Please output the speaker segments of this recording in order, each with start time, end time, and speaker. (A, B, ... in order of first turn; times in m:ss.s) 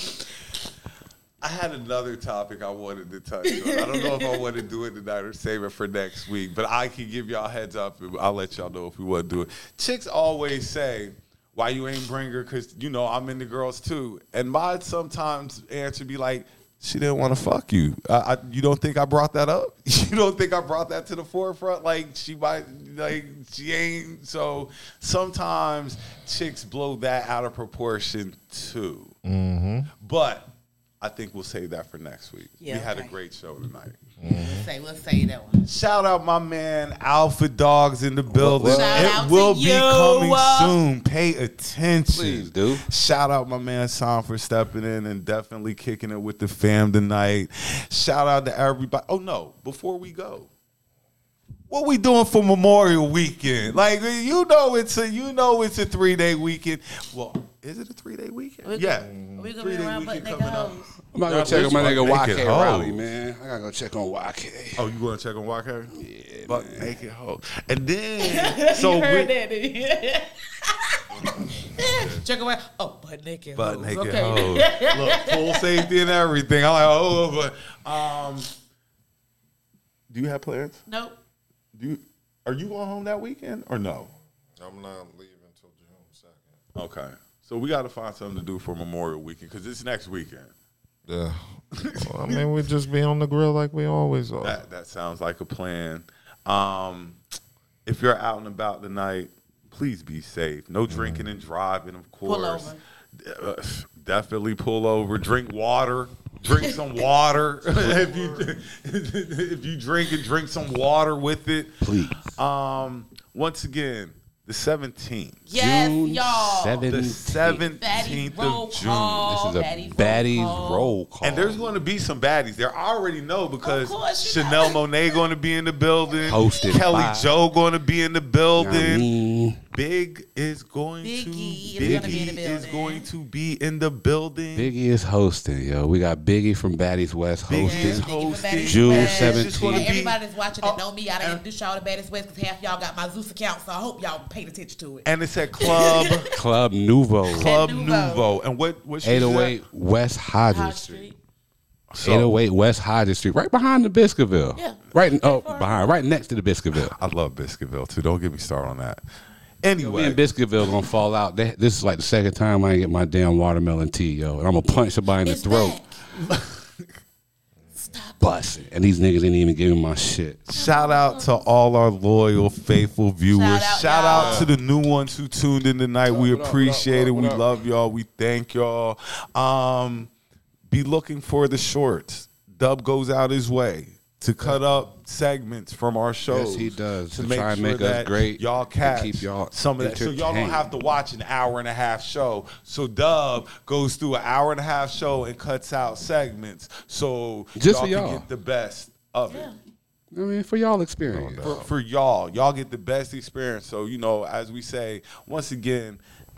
0:01.4-0:29.2 A
0:03.5-0:04.4 B
0:29.2-0:29.9 C
0:30.0-0:34.0 A
0:32.6-0:33.2 B
0:34.2-0:34.7 C
0:34.3-0:35.7 B
0:35.6-0:50.5 A
0:38.3-0:39.2 D
0:38.6-0:40.8 B
0:42.1-0:42.9 D
0:51.7-1:03.0 A
0:58.6-1:01.0 B
0:59.1-0:59.4 C
1:01.1-1:04.9 D
1:04.8-1:05.9 A
1:06.0-1:06.9 D
1:06.5-1:09.3 A
1:08.2-1:15.9 B
1:11.1-1:12.2 A
1:13.6-1:18.5 A
1:20.1-1:20.8 A
1:20.9-1:21.2 B
1:21.7-1:24.1 A
1:24.6-1:26.5 C
1:26.7-1:30.5 A
1:31.1-1:31.4 C
1:31.7-1:32.4 A
1:32.0-1:34.6 C
1:34.4-1:37.2 A
1:37.8-1:51.8 A
1:40.9-1:41.3 C
1:42.2-1:42.8 B
1:51.8-1:52.3 D
1:52.4-1:55.4 A
1:55.5-1:56.9 B
1:55.6-1:57.6 D
1:56.9-1:59.4 A
1:57.8-2:00.9 B
1:59.3-2:01.6 D
2:01.2-2:09.1 A
2:03.6-2:05.2 B
2:06.2-2:06.8 B
2:06.3-2:07.3 D
2:08.6-2:09.6 D
2:09.7-2:14.7 A
2:11.0-2:13.1 B
2:11.8-2:12.3 D
2:14.6-2:18.1 D
2:17.5-2:21.4 A
2:17.6-2:25.1 B
2:18.6-2:19.9 D
2:25.0-2:26.3 A
2:25.6-2:26.4 B
2:26.3-2:27.6 D
2:27.3-2:28.2 B
2:27.3-2:29.6 A
2:29.0-2:31.1 D
2:30.5-2:31.2 B
2:31.9-2:32.3 A
2:32.0-2:36.9 D
2:34.6-2:35.7 B
2:36.8-2:39.0 A
2:39.6-2:40.2 A
2:39.8-2:45.8 D
2:45.2-2:46.0 B
2:46.2-2:46.6 A
2:47.8-2:48.2 B
2:48.2-2:50.4 D
2:50.5-3:00.1 A
2:50.5-2:51.4 B
2:53.3-2:54.5 B
2:54.1-2:54.5 C
2:56.1-2:57.5 D
3:00.7-3:19.5 A
3:06.3-3:10.7 D
3:17.6-3:18.2 D
3:19.3-3:19.6 B
3:20.1-3:21.6 D
3:21.1-3:21.7 C
3:21.4-3:26.0 A